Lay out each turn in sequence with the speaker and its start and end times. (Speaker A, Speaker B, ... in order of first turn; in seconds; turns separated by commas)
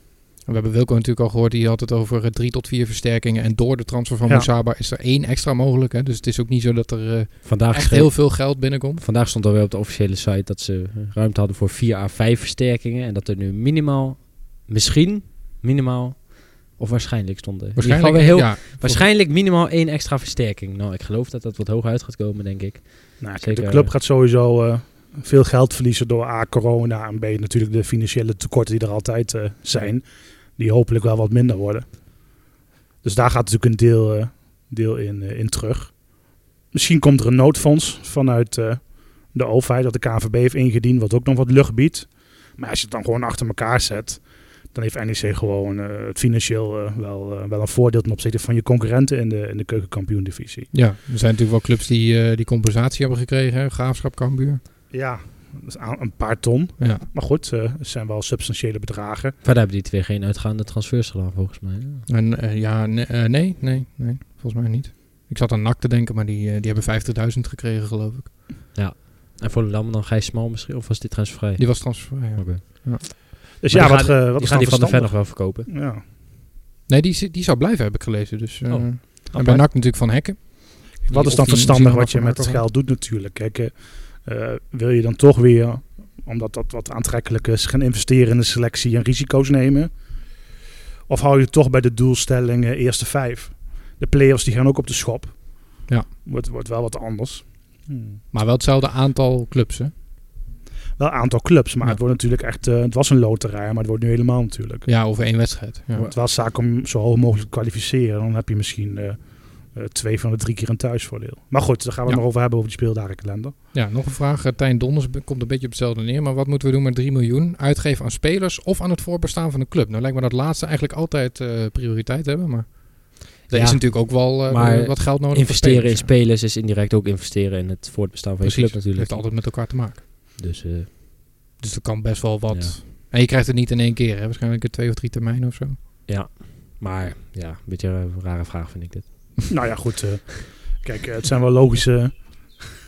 Speaker A: 0.4-9.0, Speaker B: 7.4-23.9, Speaker A: 17.8-19.0, Speaker C: 23.2-32.3, Speaker C: 33.0-50.7, Speaker A: 50.7-54.6, Speaker C: 54.9-59.4, Speaker A: 56.8-57.0, Speaker B: 59.4-62.0, Speaker A: 62.1-68.3, Speaker B: 68.7-73.2, Speaker A: 71.6-73.0, Speaker C: 73.6-76.0, Speaker B: 73.7-75.7, Speaker A: 76.9-82.6, Speaker B: 78.7-79.6, Speaker C: 81.1-89.9, Speaker C: 91.1-98.2, Speaker A: 98.3-99.9, Speaker C: 101.0-104.9, Speaker A: 104.8-106.1, Speaker C: 106.0-113.5, Speaker A: 113.7-126.1, Speaker B: 123.5-129.3, Speaker A: 128.4-130.0, Speaker B: 130.4-130.9, Speaker A: 131.6-135.8, Speaker B: 132.5-132.7, Speaker B: 136.1-139.5, Speaker C: 139.5-142.7